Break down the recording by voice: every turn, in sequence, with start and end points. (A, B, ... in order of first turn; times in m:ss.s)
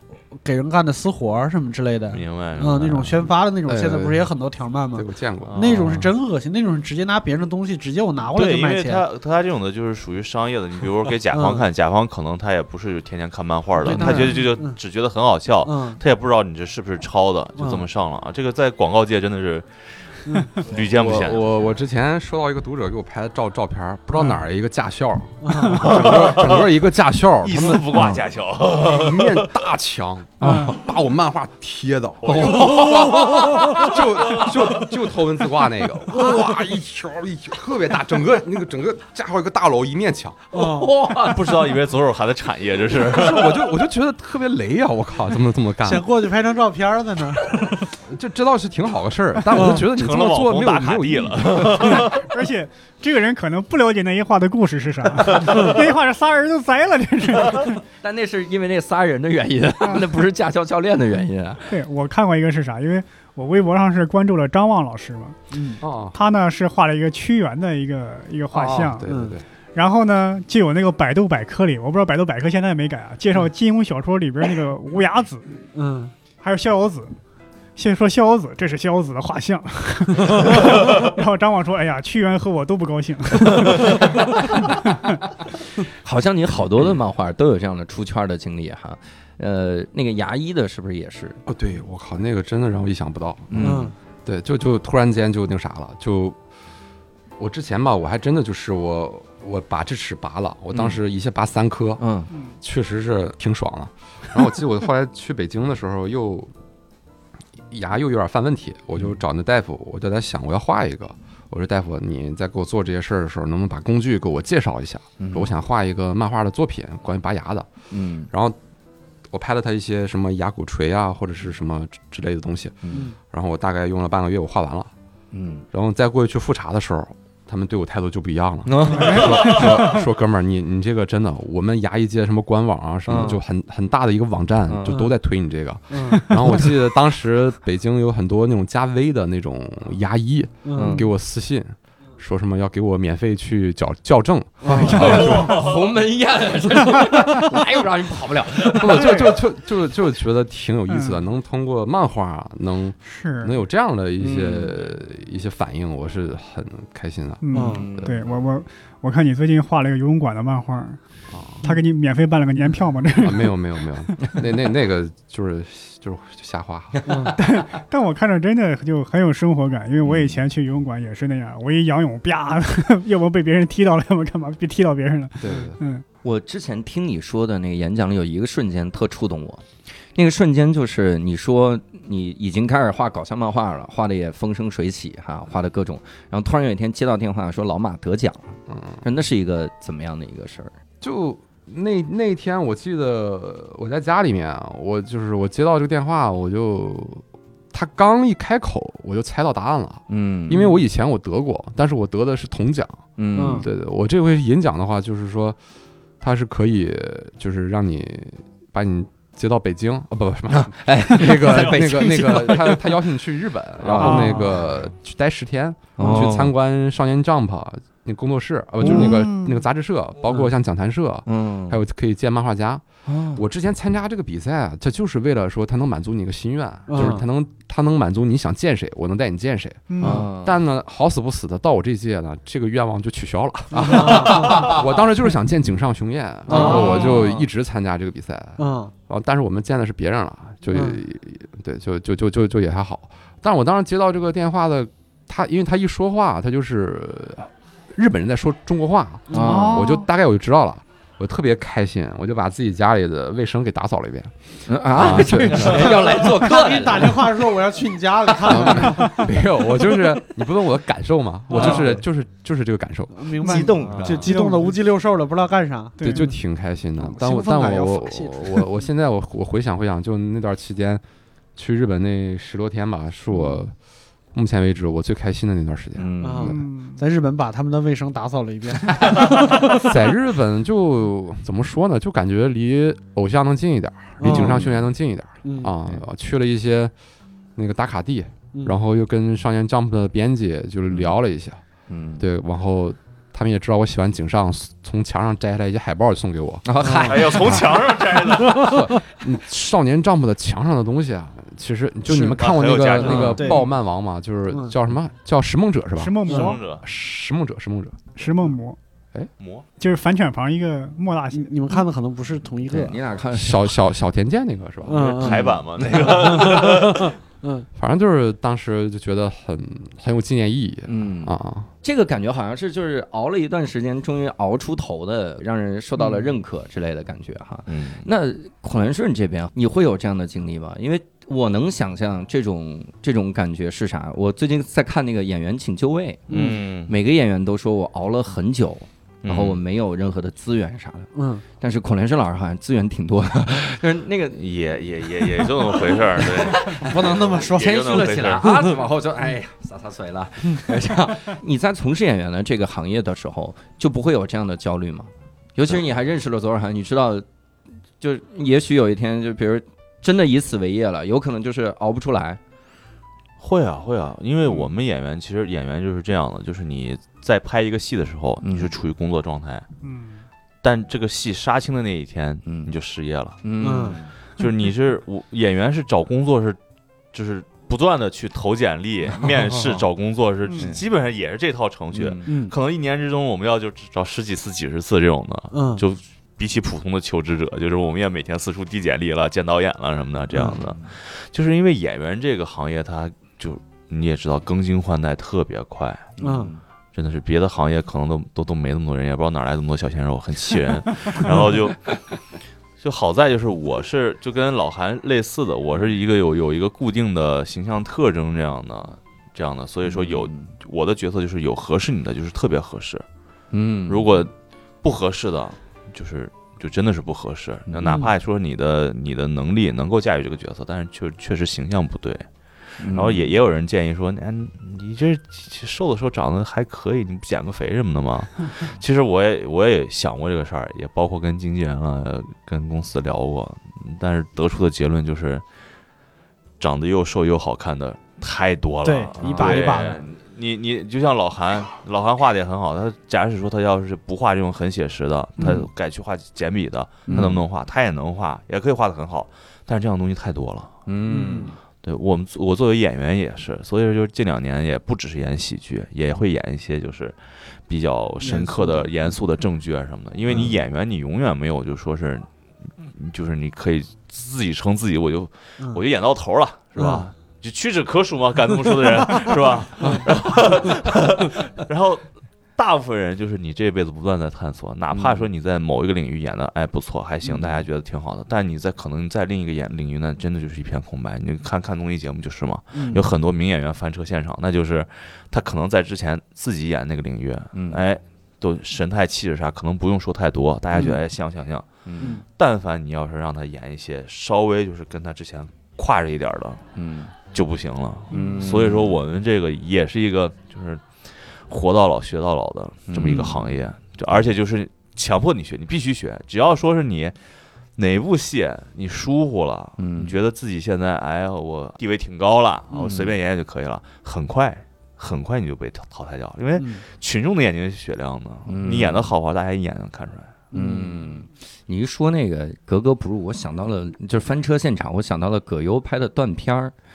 0:00.3-0:09.0 A
0:02.1-0:03.3 B
0:03.7-0:04.3 C
0:05.0-0:06.0 C
0:05.4-0:06.0 B
0:08.3-0:21.5 B
0:11.3-0:11.6 A
0:13.8-0:14.8 A
0:15.6-0:16.0 A
0:17.6-0:17.9 A
0:20.3-0:20.5 A
0:20.9-0:40.5 C
0:25.4-0:26.2 A
0:25.7-0:26.6 B
0:27.4-0:29.6 B
0:30.4-0:30.8 D
0:30.4-0:30.8 E
0:32.2-0:34.6 B
0:32.2-0:34.0 D
0:40.5-0:41.6 D
0:40.5-0:41.0 A
0:41.1-0:43.7 B
0:43.0-0:46.1 C
0:45.8-0:47.8 A
0:48.0-0:52.0 C
0:49.5-0:49.8 A
0:49.7-0:52.3 B
0:51.8-0:57.8 E
0:55.3-0:55.7 B
0:58.0-1:01.7 D
1:01.7-1:05.4 E
1:05.5-1:05.8 A
1:05.8-1:06.2 C
1:06.1-1:09.1 E
1:08.5-1:09.4 C
1:09.1-1:09.4 A
1:09.8-1:15.7 E
1:15.7-1:16.1 A
1:16.4-1:17.1 E
1:17.8-1:25.2 E
1:25.8-1:31.4 D
1:31.5-1:36.4 C
1:33.5-1:33.9 D
1:33.6-1:34.0 A
1:37.4-1:42.0 C
1:42.0-1:42.3 D
1:42.6-1:46.5 C
1:47.7-1:57.7 C
1:55.2-1:55.5 D
1:57.9-1:58.3 D
1:58.3-1:58.6 C
1:59.3-2:04.9 C
2:02.8-2:03.1 D
2:05.3-2:05.7 D
2:05.7-2:25.7 C
2:08.7-2:09.3 D
2:08.9-2:10.1 E
2:09.3-2:09.6 B
2:13.1-2:13.4 D
2:14.7-2:15.1 D
2:15.9-2:16.3 A
2:16.2-2:16.6 E
2:20.6-2:21.1 A
2:20.7-2:21.1 D
2:24.6-2:25.4 A
2:24.7-2:29.4 D
2:28.7-2:38.2 C
2:30.9-2:31.2 E
2:33.0-2:33.6 E
2:34.2-2:34.8 D
2:37.4-2:41.0 E
2:37.5-2:37.9 A
2:37.5-2:38.3 D
2:41.3-2:41.7 C
2:41.6-2:44.4 E
2:43.2-2:47.4 C
2:47.1-2:47.4 A
2:47.3-2:56.0 E
2:50.0-2:50.4 D
2:55.4-2:55.8 C
2:56.2-2:59.6 D
3:00.2-3:10.7 D
3:08.7-3:09.0 C
3:11.0-3:25.6 C
3:20.1-3:20.8 D
3:23.2-3:23.7 D
3:23.4-3:23.7 A
3:26.2-4:16.0 C
3:30.7-3:32.9 D
3:33.8-3:34.4 D
3:34.0-3:34.6 E
3:36.0-3:36.5 D
3:38.8-3:39.6 E
3:41.3-3:41.8 D
3:43.1-3:43.4 D
3:46.9-3:47.2 A
3:49.9-3:50.3 E
3:50.0-3:50.6 D
3:53.7-3:54.8 A
3:56.5-3:57.0 A
3:56.5-3:57.5 D
3:58.6-3:58.9 A
4:00.7-4:01.0 A
4:09.3-4:09.7 A
4:09.3-4:09.9 D
4:09.4-4:10.0 E
4:14.7-4:17.3 D
4:15.5-4:16.1 B
4:15.8-4:19.3 A
4:18.4-4:18.8 D
4:18.4-4:23.3 C
4:21.5-4:22.0 A
4:23.1-4:26.2 A
4:23.4-4:24.8 E
4:23.4-4:24.3 D
4:23.8-4:24.3 B
4:26.0-4:26.3 E
4:26.0-4:31.0 C
4:27.0-4:28.8 A
4:31.6-4:33.7 C
4:34.3-4:36.1 C
4:36.0-4:36.6 D
4:36.2-4:39.9 A
4:36.5-4:37.0 E
4:39.3-4:46.9 C
4:44.2-4:44.6 A
4:44.2-4:44.9 D
4:45.4-4:45.7 A
4:47.6-4:51.6 C
4:51.9-4:52.3 D
4:52.2-4:56.6 C
4:56.6-4:57.7 D
4:56.8-4:57.2 A
4:57.1-4:58.8 B
4:58.4-4:58.8 A
4:58.5-5:08.2 C
5:02.1-5:02.4 A
5:02.4-5:03.4 B
5:03.0-5:03.7 A
5:03.0-5:03.4 D
5:06.0-5:06.6 E
5:06.3-5:06.6 A
5:06.3-5:06.8 B
5:08.2-5:08.8 E
5:09.4-5:09.7 B
5:09.8-5:11.8 E
5:11.3-5:13.0 A
5:12.7-5:13.8 D
5:13.3-5:15.3 C
5:14.8-5:17.7 A
5:15.0-5:17.1 B
5:17.8-5:21.7 C
5:20.9-5:44.4 D
5:26.0-5:26.3 A
5:27.7-5:28.1 B
5:36.3-5:36.6 A
5:36.3-5:36.9 B
5:39.2-5:39.6 B
5:41.1-5:41.4 A
5:44.3-5:48.4 B
5:46.2-5:57.2 D
5:46.5-5:48.8 A
5:58.0-6:02.4 D
6:03.4-6:09.7 B
6:08.4-6:08.7 D
6:09.8-6:10.2 E
6:10.6-6:13.4 B
6:12.5-6:12.7 D
6:13.4-6:14.1 D
6:13.6-6:14.0 A
6:14.4-6:16.6 B
6:17.1-6:36.1 B
6:19.2-6:19.8 D
6:20.6-6:20.8 D
6:21.9-6:22.4 D
6:22.3-6:22.5 A
6:25.5-6:25.8 A
6:30.4-6:30.9 D
6:36.2-6:36.6 D
6:36.2-6:36.5 A
6:36.9-6:42.0 B
6:42.8-6:53.0 B
6:49.8-6:50.5 D
6:53.5-6:54.3 D
6:53.9-6:54.3 B
6:54.8-7:02.3 B
6:57.7-6:58.1 D
7:02.8-7:03.3 D
7:02.9-7:15.4 B
7:16.6-7:30.8 B
7:18.8-7:20.0 A
7:19.2-7:20.0 D
7:27.1-7:27.4 D
7:30.9-7:31.6 D
7:31.1-7:31.5 A
7:31.8-7:42.3 B
7:38.2-7:38.9 A
7:42.8-7:52.0 B
7:52.6-8:16.6 B
7:54.9-7:55.2 D
8:02.7-8:03.0 A
8:07.5-8:07.8 D
8:11.9-8:12.2 D
8:16.8-8:17.1 D
8:17.3-8:27.2 B
8:18.1-8:19.0 D
8:22.9-8:23.6 D
8:27.8-8:40.4 B
8:29.8-8:30.2 D
8:32.7-8:33.1 D
8:36.6-8:36.8 A
8:38.5-8:39.1 D
8:40.5-8:41.2 A
8:40.5-8:46.7 D